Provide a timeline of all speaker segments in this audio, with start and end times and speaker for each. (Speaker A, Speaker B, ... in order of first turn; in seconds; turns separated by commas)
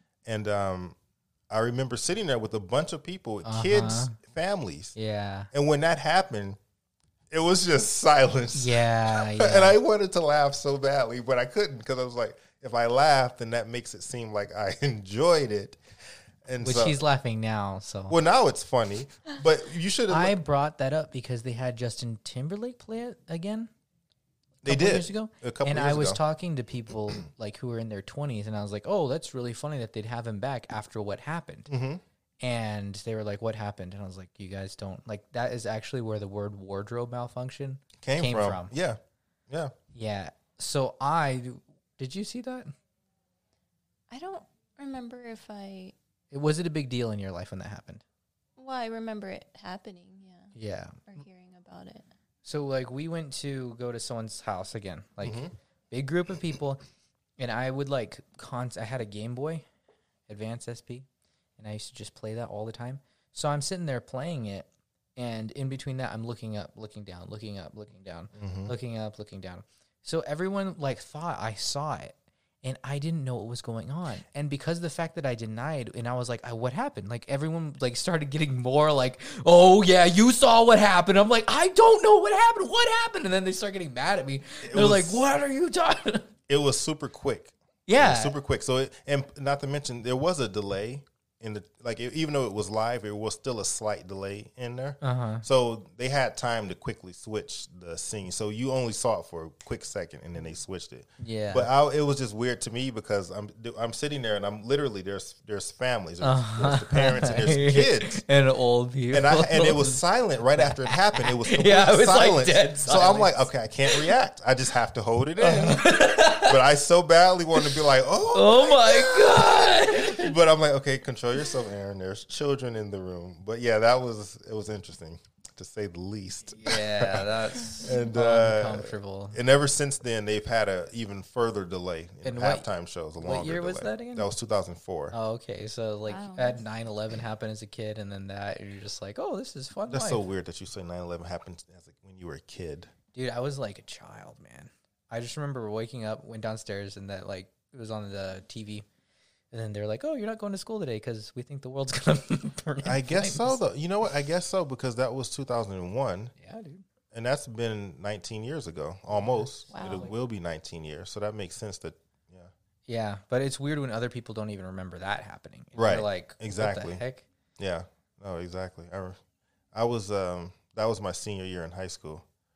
Speaker A: 0.2-1.0, Speaker A: 1.5-5.0, Speaker B: 3.4-4.2, Speaker B: 5.0-5.5, Speaker A: 5.5-6.6, Speaker A: 7.3-15.8, Speaker B: 8.5-9.8, Speaker A: 16.5-17.0, Speaker B: 16.6-18.2, Speaker A: 18.1-20.4, Speaker B: 20.1-23.7, Speaker A: 24.6-26.2, Speaker B: 24.6-31.7, Speaker A: 31.7-32.0, Speaker B: 32.4-38.8, Speaker A: 38.0-39.7, Speaker B: 39.9-42.7, Speaker C: 44.1-45.9, Speaker B: 46.3-48.0, Speaker C: 48.6-50.5, Speaker B: 50.5-51.2, Speaker C: 51.1-52.1, Speaker B: 52.5-56.8, Speaker A: 55.2-55.5, Speaker B: 57.4-59.6, Speaker B: 60.3-61.1, Speaker B: 61.6-86.3, Speaker A: 68.4-68.8, Speaker A: 84.6-85.3, Speaker A: 86.5-108.2, Speaker B: 87.9-88.3, Speaker B: 95.0-95.5, Speaker B: 101.2-101.7, Speaker B: 106.2-110.0, Speaker A: 109.1-135.2, Speaker B: 110.6-114.0, Speaker B: 115.4-116.6, Speaker B: 118.3-120.3, Speaker B: 126.5-129.4, Speaker B: 132.2-134.3, Speaker B: 135.1-140.2, Speaker C: 136.1-136.7, Speaker A: 139.9-142.9, Speaker B: 143.1-148.8, Speaker B: 149.5-153.6, Speaker A: 152.8-156.3, Speaker B: 156.4-156.8, Speaker A: 157.1-162.5, Speaker B: 159.1-160.1, Speaker C: 159.7-160.1, Speaker B: 162.9-167.2, Speaker A: 165.8-167.0, Speaker A: 167.6-169.2, Speaker A: 169.7-172.2